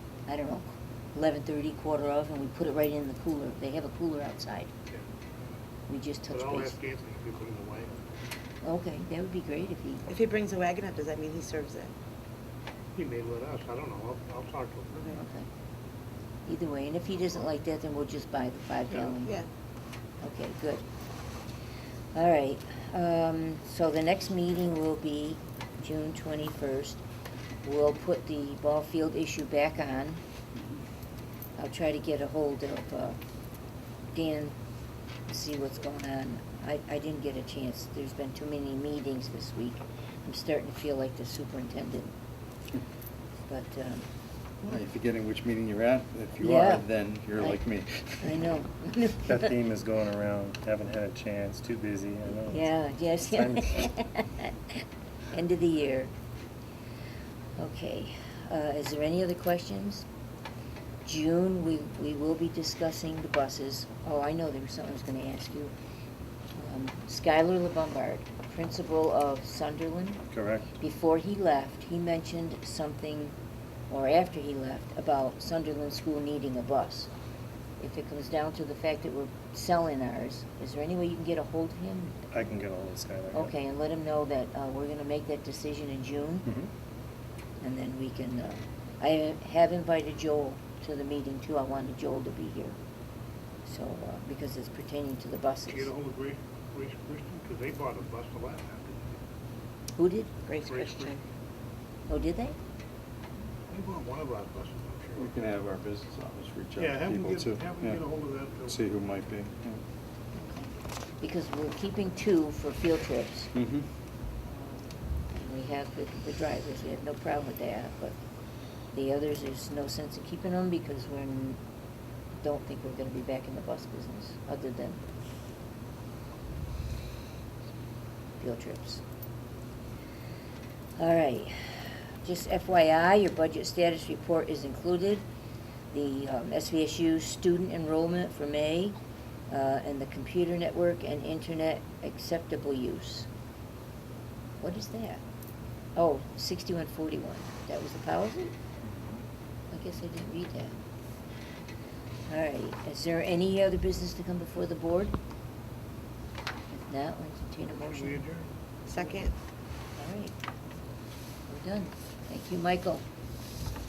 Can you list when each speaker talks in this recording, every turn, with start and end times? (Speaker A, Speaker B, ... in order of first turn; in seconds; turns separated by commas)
Speaker A: 0.3-4.7, Speaker A: 5.9-6.7, Speaker B: 6.3-8.0, Speaker A: 8.6-10.0, Speaker C: 10.1-11.9, Speaker B: 12.9-15.1, Speaker A: 15.1-15.4, Speaker A: 16.4-19.4, Speaker B: 18.9-19.2, Speaker A: 20.2-20.8, Speaker A: 22.1-27.0, Speaker A: 27.6-30.2, Speaker A: 31.6-33.2, Speaker A: 34.1-34.5, Speaker A: 35.3-42.1, Speaker A: 43.5-44.1, Speaker D: 44.6-48.4, Speaker A: 46.4-46.9, Speaker A: 48.2-49.5, Speaker E: 49.2-52.7, Speaker A: 52.5-56.1, Speaker E: 53.2-53.9, Speaker A: 57.6-60.0, Speaker A: 61.0-65.7, Speaker A: 66.5-70.2, Speaker E: 70.3-70.7, Speaker A: 70.8-73.3, Speaker A: 73.9-77.1, Speaker A: 77.8-82.2, Speaker E: 82.3-83.5, Speaker A: 83.3-86.5, Speaker E: 86.4-86.7, Speaker A: 87.6-92.8, Speaker A: 93.6-95.9, Speaker B: 95.7-99.2, Speaker A: 100.0-100.3, Speaker C: 100.5-101.2, Speaker B: 100.7-101.2, Speaker A: 102.1-102.6, Speaker B: 103.7-105.3, Speaker D: 105.2-108.0, Speaker B: 106.8-108.8, Speaker D: 108.7-109.8, Speaker A: 110.3-113.5, Speaker D: 113.5-113.8, Speaker A: 114.5-118.2, Speaker A: 118.9-121.6, Speaker A: 122.4-125.0, Speaker A: 128.4-129.0, Speaker A: 131.0-135.2, Speaker A: 135.9-138.9, Speaker A: 139.5-143.3, Speaker A: 144.6-145.2, Speaker A: 145.9-148.5, Speaker E: 148.8-149.2, Speaker A: 149.7-150.7, Speaker A: 152.3-155.2, Speaker A: 156.7-158.2, Speaker B: 157.8-159.2, Speaker C: 158.9-159.3, Speaker A: 159.9-160.3, Speaker A: 161.5-163.0